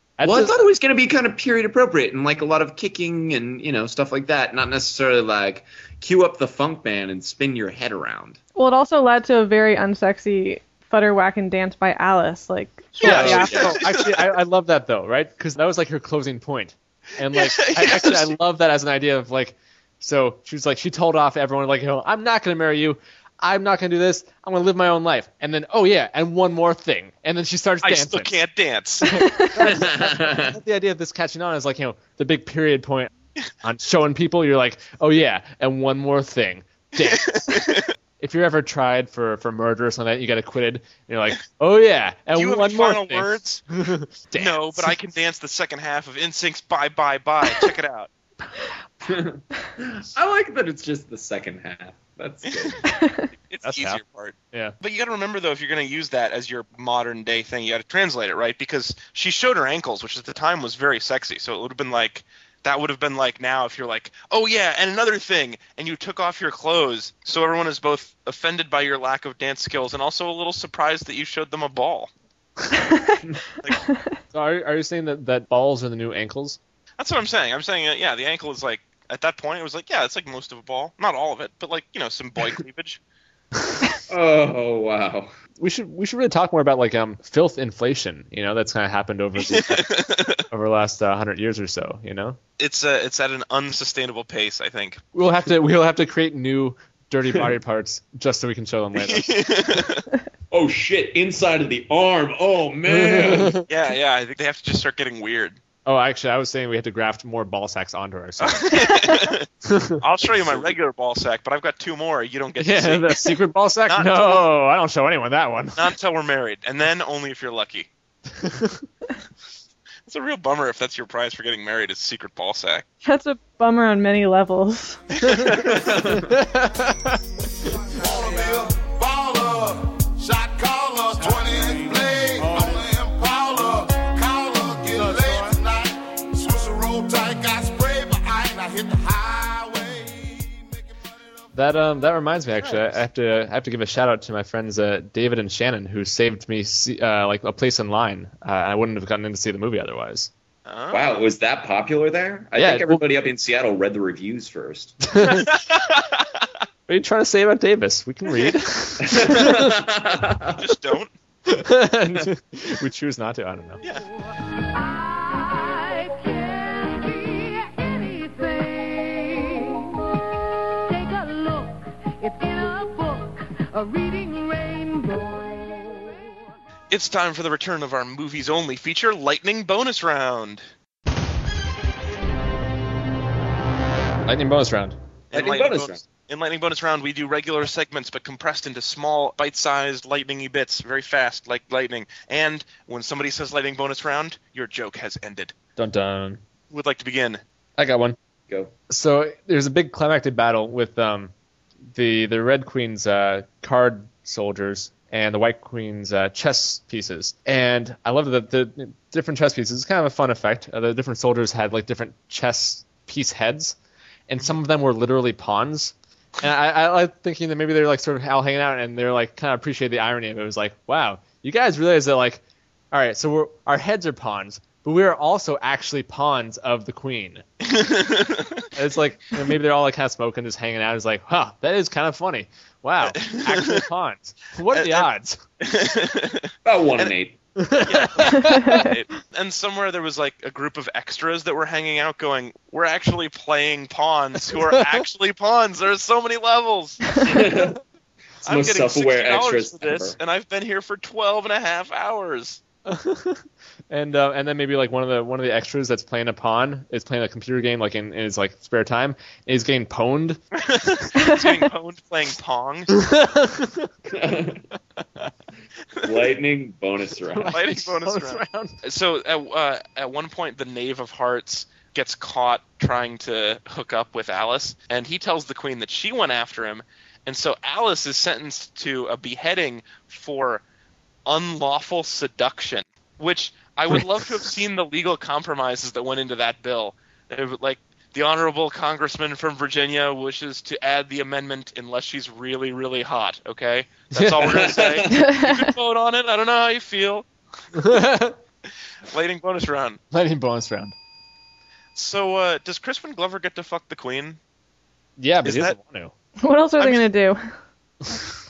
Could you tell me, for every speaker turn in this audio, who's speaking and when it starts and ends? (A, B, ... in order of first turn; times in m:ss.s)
0:00.2-0:00.6 A
0:00.2-0:08.4 B
0:08.6-0:13.8 C
0:13.0-0:13.8 B
0:13.0-0:28.4 A
0:13.0-0:14.3 D
0:17.3-0:18.3 D
0:27.8-0:29.3 D
0:29.0-0:33.1 A
0:29.1-0:29.5 C
0:29.6-0:30.6 B
0:33.6-0:45.0 A
0:37.0-0:37.9 D
0:42.3-0:43.6 D
0:44.3-0:48.1 D
0:49.0-0:53.0 B
0:52.4-0:52.8 D
0:52.9-0:53.3 C
0:53.4-1:12.1 D
0:53.6-0:54.0 A
1:12.7-1:13.2 C
1:13.8-1:14.1 C
1:14.3-1:16.6 A
1:17.0-1:23.0 D
1:24.1-1:25.3 B
1:25.6-1:32.4 A
1:29.4-1:30.4 D
1:32.6-1:35.0 D
1:35.1-1:39.3 A
1:39.0-1:40.0 D
1:40.5-1:43.6 B
1:42.9-1:43.6 A
1:43.7-1:45.6 D
1:45.8-1:49.0 A
1:48.4-1:53.4 D
1:48.7-1:49.3 C
1:49.6-1:50.0 A
1:50.2-1:50.7 B
1:52.6-1:55.8 A
1:53.9-1:54.5 D
1:55.8-1:57.9 D
1:58.4-1:58.8 A
2:00.1-2:02.8 D
2:03.0-2:05.0 C
2:05.1-2:06.0 D
2:05.2-2:07.2 A
2:05.6-2:06.4 B
2:08.0-2:20.5 E
2:21.5-2:30.3 A
2:22.6-2:23.0 D
2:30.6-2:31.2 D
2:30.9-2:35.0 B
2:32.6-2:33.0 A
2:35.0-2:35.5 A
2:35.4-2:36.4 D
2:36.9-2:39.8 A
2:39.0-2:40.7 B
2:40.5-2:41.1 D
2:41.5-2:43.8 A
2:44.7-2:56.4 E
2:56.9-3:00.6 D
3:04.2-3:05.0 A
3:05.3-3:15.5 D
3:05.3-3:06.0 B
3:15.8-3:16.4 A
3:16.7-3:17.4 D
3:17.8-3:18.2 A
3:18.9-3:21.3 A
3:21.9-3:33.8 A
3:34.3-3:47.4 A
3:47.6-3:48.7 D
3:48.8-3:55.4 A
3:53.1-3:53.8 D
3:54.7-3:55.1 D
3:55.6-3:57.1 D
3:56.6-3:57.4 B
3:57.6-3:58.9 A
3:57.8-4:07.4 D
3:58.3-3:58.9 C
4:04.5-4:05.0 A
4:07.2-4:07.8 B
4:08.4-4:12.6 D
4:08.4-4:10.2 B
4:12.8-4:20.4 A
4:20.5-4:22.9 D
4:22.9-4:23.9 A
4:24.1-4:24.6 B
4:26.0-4:27.5 B
4:27.2-4:28.8 A
4:27.5-4:40.6 D
4:41.2-4:57.3 D
4:54.1-4:54.6 A
4:54.4-4:55.2 B
4:55.1-4:55.7 C
4:57.7-4:58.4 A
4:59.1-5:00.0 D
5:00.1-5:00.9 A
5:02.0-5:04.4 D
5:05.2-5:06.1 A
5:05.4-5:05.8 D
5:06.4-5:07.4 C
5:06.8-5:07.0 D